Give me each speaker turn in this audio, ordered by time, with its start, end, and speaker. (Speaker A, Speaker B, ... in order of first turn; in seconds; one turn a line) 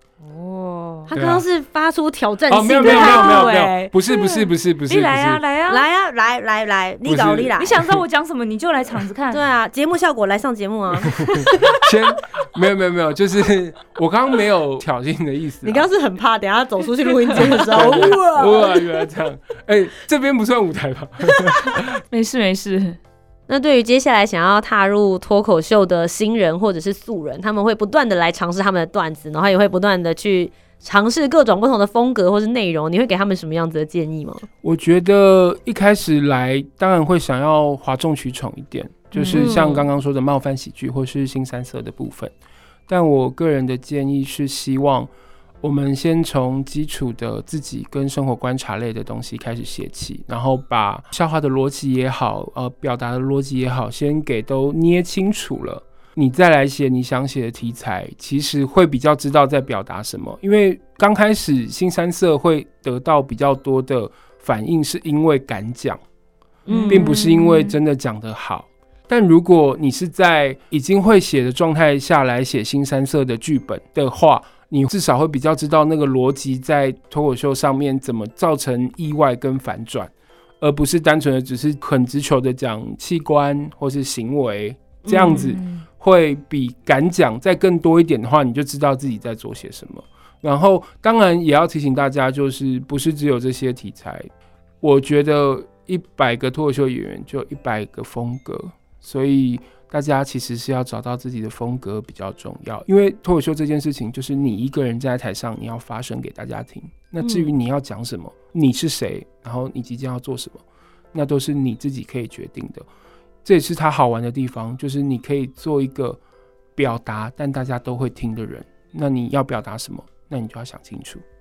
Speaker A: 0.2-1.1
Speaker B: 1.1-3.9
Speaker C: 1.1-1.4
Speaker C: 2.5-5.4
Speaker A: 2.8-5.8
Speaker B: 5.7-7.7
Speaker C: 7.0-8.0
Speaker A: 7.5-9.4
Speaker B: 9.3-11.8
Speaker C: 11.2-15.9
Speaker B: 15.6-18.8
Speaker C: 17.4-22.0
Speaker A: 21.6-23.0
Speaker B: 23.5-34.5
Speaker C: 34.6-42.3
Speaker A: 39.1-39.7
Speaker B: 39.3-39.8
Speaker C: 42.9-45.1
Speaker C: 45.6-66.0
Speaker B: 66.7-67.1
Speaker A: 66.7-67.8
Speaker C: 66.9-94.3
Speaker B: 85.0-85.5
Speaker A: 85.1-85.8
Speaker C: 94.8-110.6
Speaker B: 107.2-107.5
Speaker C: 111.1-112.9
Speaker C: 113.4-116.2
Speaker C: 116.8-121.2